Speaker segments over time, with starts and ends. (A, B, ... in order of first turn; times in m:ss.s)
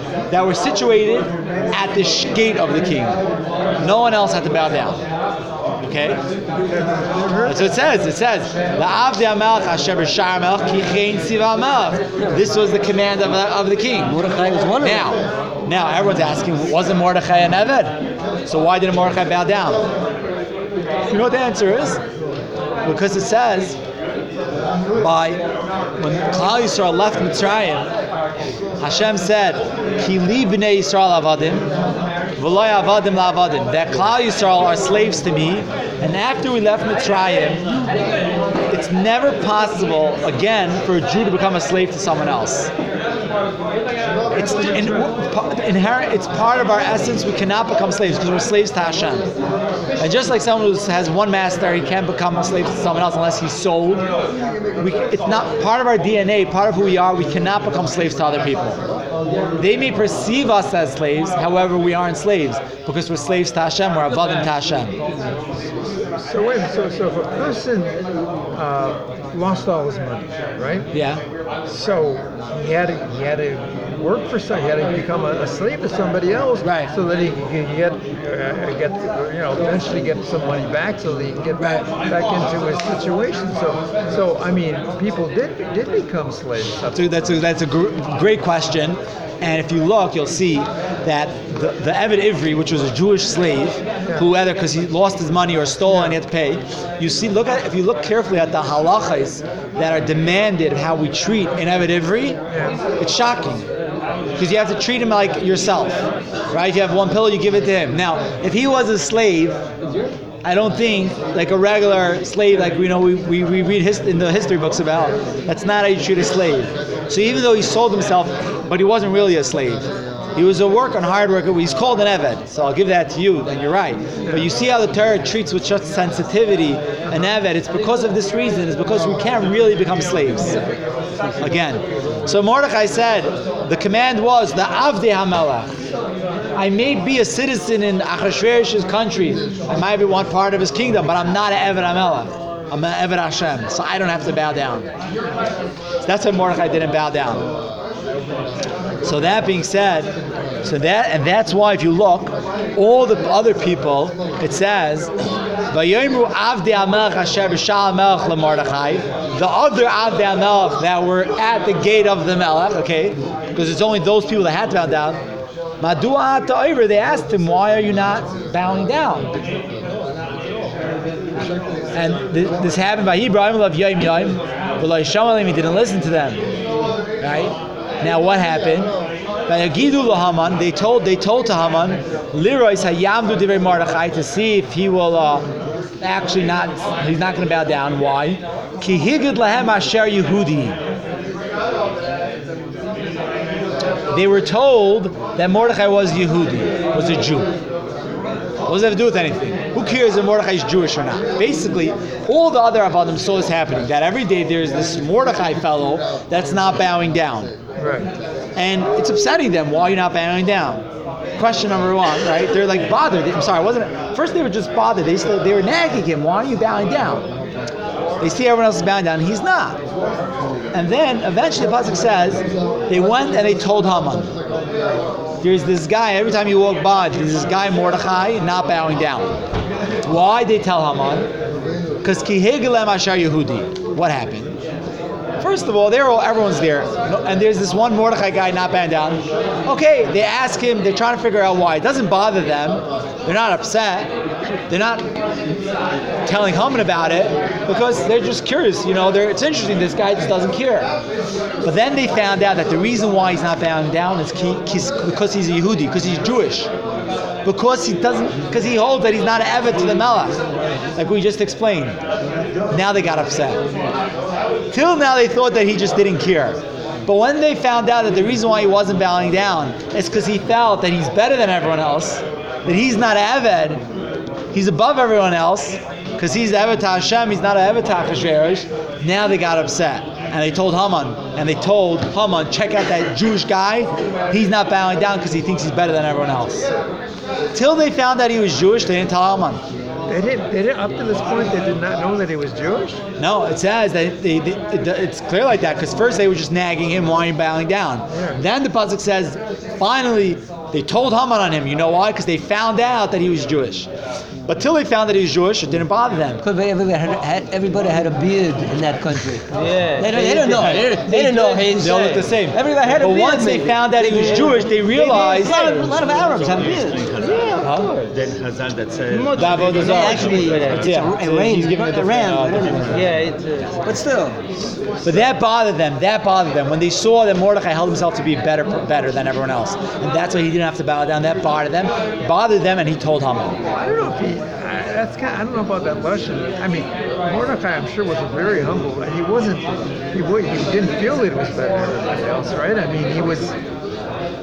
0:00.3-0:03.2 A
0:03.8-0:05.0 A
0:05.8-0:06.2 A
0:07.2-0:07.6 B
0:07.4-0:14.2 A
0:14.0-0:15.1 C
0:14.8-0:19.8 A
0:21.1-0:22.0 A
0:22.8-0:23.8 A
0:25.0-0:25.4 A
0:26.0-0:27.9 A
0:28.8-0:31.7 A
0:32.4-0:37.7 A
0:38.7-0:42.7 A
0:44.3-0:45.1 B
0:44.3-0:49.3 A
0:50.0-0:54.1 A
0:54.8-0:58.8 A
0:59.6-1:05.0 A
1:06.3-1:08.0 B
1:08.6-1:10.9 B
1:10.9-1:11.2 A
1:11.7-1:27.2 B
1:16.6-1:16.9 A
1:21.6-1:21.9 A
1:26.9-1:42.4 A
1:35.9-1:36.2 B
1:42.5-1:42.8 B
1:43.0-1:43.7 A
1:44.4-1:49.6 A
1:50.4-2:10.6 A
2:11.4-2:15.7 A
2:16.6-2:24.9 A
2:26.0-2:27.4 A
2:29.0-2:30.1 A
2:30.6-2:35.1 A
2:35.7-2:45.2 A
2:45.8-2:49.3 A
2:51.9-2:56.4 A
2:57.2-2:58.9 A
2:59.5-3:05.5 A
3:06.0-3:10.8 A
3:14.1-3:17.5 A
3:18.7-3:27.5 A
3:27.8-3:28.1 B
3:28.6-3:30.8 A
3:31.4-3:37.3 A
3:38.2-3:39.8 A
3:40.7-3:44.3 A
3:45.4-3:49.4 A
3:50.0-3:51.3 A
3:52.0-3:54.6 A
3:55.4-4:04.1 A
4:04.7-4:05.1 A
4:06.3-4:10.9 A
4:11.6-4:16.7 A
4:17.4-4:20.4 A
4:21.0-4:22.0 A
4:22.7-4:23.6 A
4:24.7-4:33.8 A
4:34.5-4:46.7 A
4:47.5-4:49.6 A
4:50.1-4:53.0 B
4:53.2-5:03.9 A
4:58.1-4:58.4 B
5:04.5-5:06.4 A
5:06.4-5:17.1 C
5:09.5-5:12.2 D
5:10.5-5:15.7 A
5:14.1-5:15.9 D
5:15.8-5:20.7 E
5:17.2-5:18.1 D
5:17.6-5:17.9 A
5:19.1-5:20.9 D
5:19.4-5:23.1 A
5:19.8-5:23.1 C
5:22.9-5:23.8 D
5:23.8-5:24.4 C
5:25.0-5:33.6 A
5:33.7-5:43.6 B